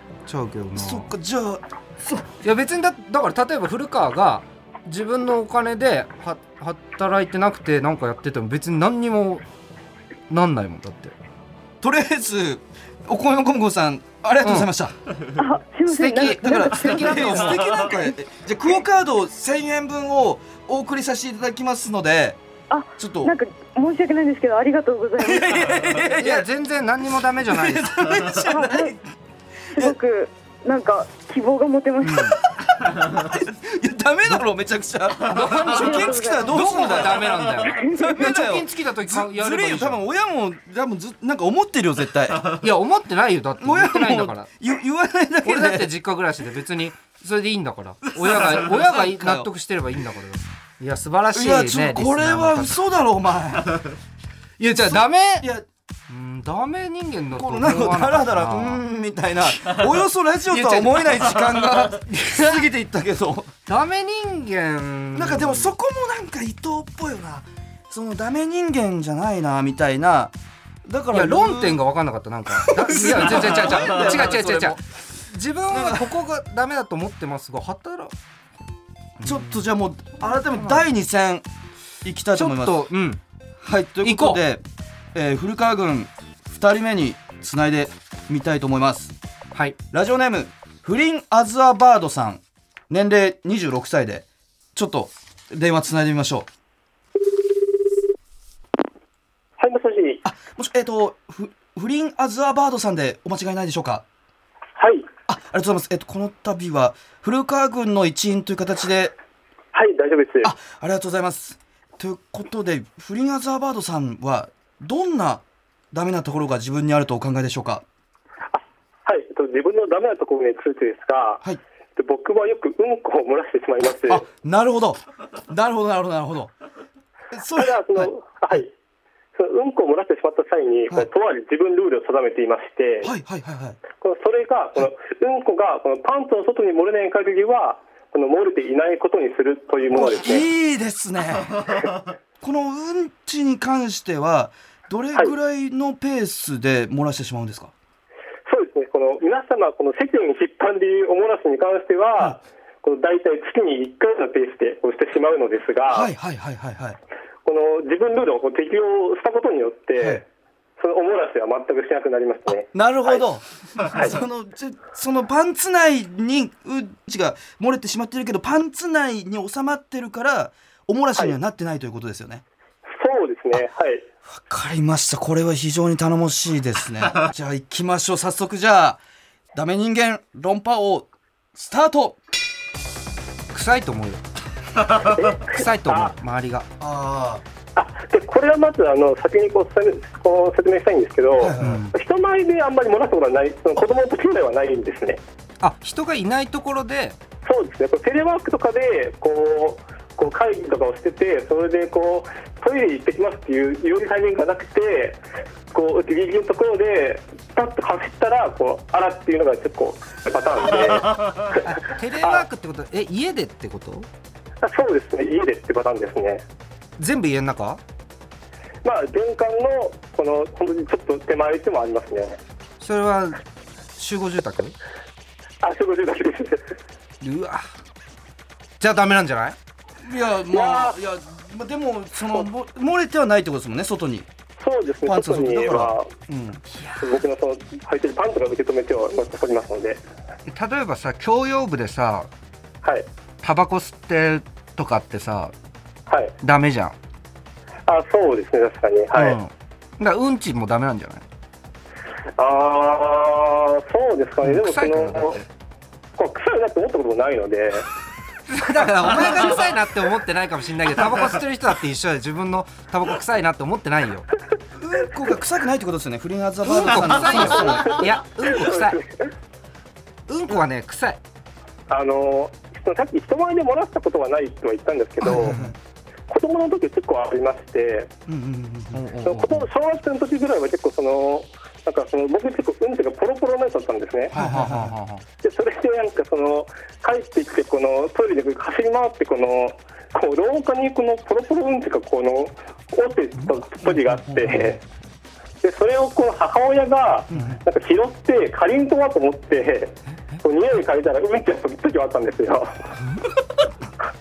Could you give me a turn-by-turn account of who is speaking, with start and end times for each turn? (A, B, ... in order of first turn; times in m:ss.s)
0:00.3-0:01.1 A
0:00.8-0:02.3 B
0:02.4-0:09.4 A
0:10.3-0:11.1 A
0:11.8-0:14.9 B
0:14.4-0:14.7 A
0:15.4-0:17.3 C
0:15.9-0:18.0 A
0:16.2-0:22.4 B
0:22.7-0:25.8 C
0:23.0-0:23.3 B
0:25.2-0:26.5 B
0:26.1-0:27.9 A
0:27.5-0:29.0 B
0:28.4-0:29.0 C
0:29.8-0:32.4 C
0:32.2-0:42.6 B
0:35.2-0:40.0 A
0:35.6-0:36.8 C
0:37.6-0:38.2 C
0:42.5-0:44.5 A
0:43.6-0:45.9 B
0:45.4-0:52.8 A
0:48.1-0:49.5 B
0:51.3-0:53.9 B
0:54.6-0:55.5 A
0:54.9-0:55.7 B
0:56.1-0:58.8 A
0:57.4-1:03.5 B
1:00.5-1:02.6 A
1:03.7-1:05.7 A
1:05.2-1:10.3 B
1:10.9-1:11.8 B
1:11.1-1:18.1 A
1:12.6-1:14.8 B
1:15.7-1:16.1 B
1:19.2-1:19.6 A
1:19.2-1:21.4 B
1:20.6-1:20.8 A
1:22.0-1:22.9 B
1:22.3-1:23.2 A
1:23.6-1:24.6 B
1:24.0-1:24.4 A
1:25.1-1:29.2 B
1:29.9-1:36.5 B
1:39.6-1:40.2 D
1:40.2-1:44.0 B
1:44.8-1:45.1 D
1:45.3-1:49.1 B
1:49.7-1:50.5 D
1:50.4-1:57.8 B
1:58.5-2:01.4 D
2:02.0-2:04.2 D
2:04.1-2:06.5 B
2:07.3-2:08.1 B
2:07.5-2:08.7 D
2:09.4-2:13.1 D
2:13.0-2:13.8 B
2:14.0-2:20.4 D
2:19.9-2:21.8 B
2:22.4-2:27.7 B
2:28.5-2:36.1 D
2:35.9-2:37.0 B
2:37.4-2:40.2 D
2:40.0-2:40.2 B
2:40.8-2:43.2 D
2:42.7-2:52.4 B
2:43.8-2:44.2 D
2:53.0-2:54.0 D
2:54.3-2:59.0 B
2:59.5-3:02.2 B
3:03.5-3:04.2 A
3:05.0-3:06.1 D
3:05.4-3:06.7 A
3:06.8-3:07.4 B
3:07.8-3:15.2 D
3:11.4-3:11.8 B
3:11.6-3:11.9 A
3:15.6-3:17.2 A
3:17.4-3:25.2 D
3:25.7-3:32.4 D
3:31.6-3:34.1 A
3:34.6-3:36.4 D
3:37.0-3:37.8 A
3:38.8-3:42.4 D
3:42.8-3:43.4 A
3:44.0-3:44.8 A
3:45.6-3:46.6 D
3:47.2-3:47.7 A
3:48.8-3:49.6 A
3:50.0-3:54.3 B
3:50.5-3:51.0 D
3:54.6-3:56.1 D
3:55.1-3:56.6 B
3:56.7-3:57.1 A
3:57.0-4:00.0 D
4:00.5-4:02.3 A
4:03.4-4:05.5 A
4:06.4-4:07.0 A
4:07.9-4:09.4 D
4:09.1-4:11.2 A
4:12.4-4:15.4 D
4:14.4-4:15.5 A
4:16.2-4:17.9 D
4:18.5-4:24.3 A
4:24.8-4:28.0 B
4:26.6-4:29.0 A
4:27.5-4:29.1 D
4:30.3-4:31.2 A
4:31.9-4:35.7 D
4:35.2-4:35.8 B
4:36.3-4:38.1 D
4:38.3-4:39.0 B
4:38.9-4:39.7 A
4:39.2-4:44.3 D
4:44.3-4:45.0 B
4:44.3-4:45.2 A
4:45.4-4:54.8 D
4:54.1-4:54.8 B
4:55.6-5:02.8 D
4:57.3-4:57.6 B